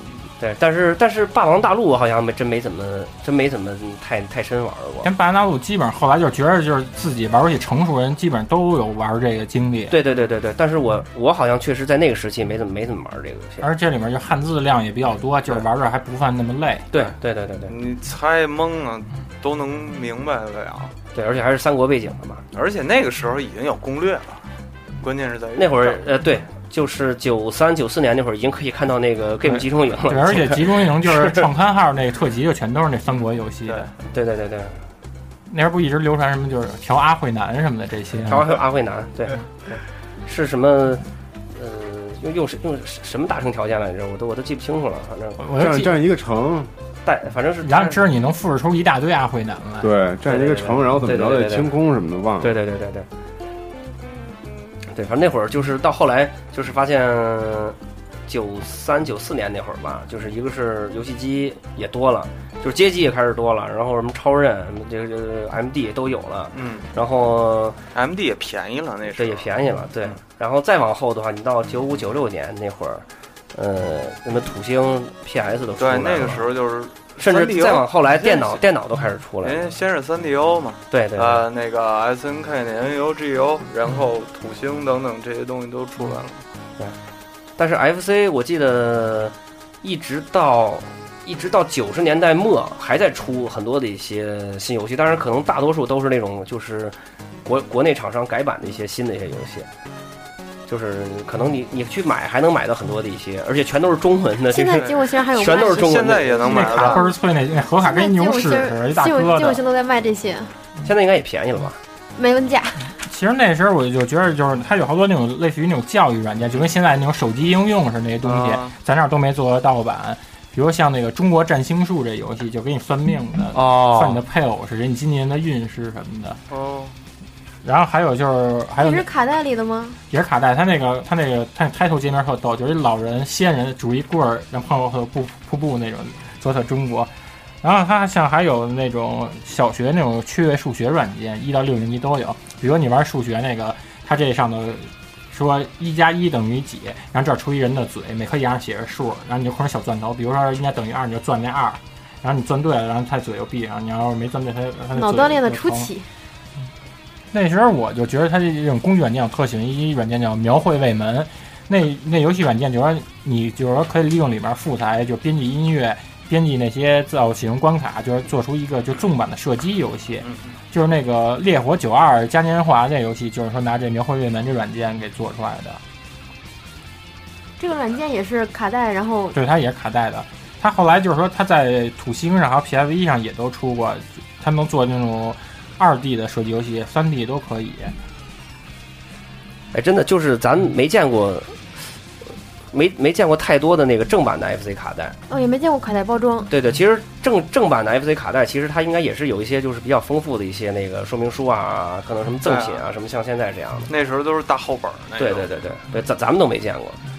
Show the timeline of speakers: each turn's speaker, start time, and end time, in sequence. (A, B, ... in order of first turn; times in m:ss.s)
0:00.4-0:05.1 A
0:05.0-0:10.0 B
0:09.9-0:13.7 A
0:13.6-0:16.9 B
0:16.9-0:17.7 A
0:17.7-0:20.9 C
0:21.2-0:22.4 A
0:22.5-0:24.4 C
0:25.0-0:26.0 C
0:25.6-0:31.5 A
0:30.0-0:33.9 B
0:33.1-0:33.9 C
0:34.1-0:34.8 A
0:35.5-0:38.6 B
0:38.3-0:41.0 A
0:41.6-0:45.4 A
0:45.4-0:46.0 B
0:45.6-0:46.7 D
0:47.0-0:48.0 A
0:47.6-0:49.9 B
0:49.8-0:52.6 D
0:50.3-0:51.7 A
0:52.4-0:53.1 A
0:54.9-1:07.8 A
1:06.5-1:06.9 C
1:07.9-1:09.5 C
1:09.2-1:16.5 A
1:15.8-1:18.6 C
1:17.2-1:19.6 A
1:19.4-1:26.4 C
1:20.9-1:21.4 A
1:27.6-1:39.7 A
1:40.7-1:46.8 A
1:44.5-1:47.1 E
1:45.5-1:47.0 C
1:46.4-1:49.6 B
1:47.8-1:50.5 E
1:50.8-1:51.8 A
1:52.2-1:52.9 E
1:52.9-2:06.4 B
1:58.2-1:58.7 C
2:03.5-2:04.2 A
2:06.5-2:07.0 C
2:07.6-2:09.1 B
2:08.8-2:10.0 E
2:10.1-2:35.9 B
2:34.9-2:36.0 E
2:37.3-2:55.8 B
2:57.6-2:59.4 E
2:59.3-3:08.0 B
3:09.7-3:11.6 A
3:12.7-3:15.2 A
3:15.3-3:16.5 E
3:16.5-3:23.9 A
3:22.4-3:22.8 C
3:23.9-3:25.5 C
3:25.2-3:27.0 A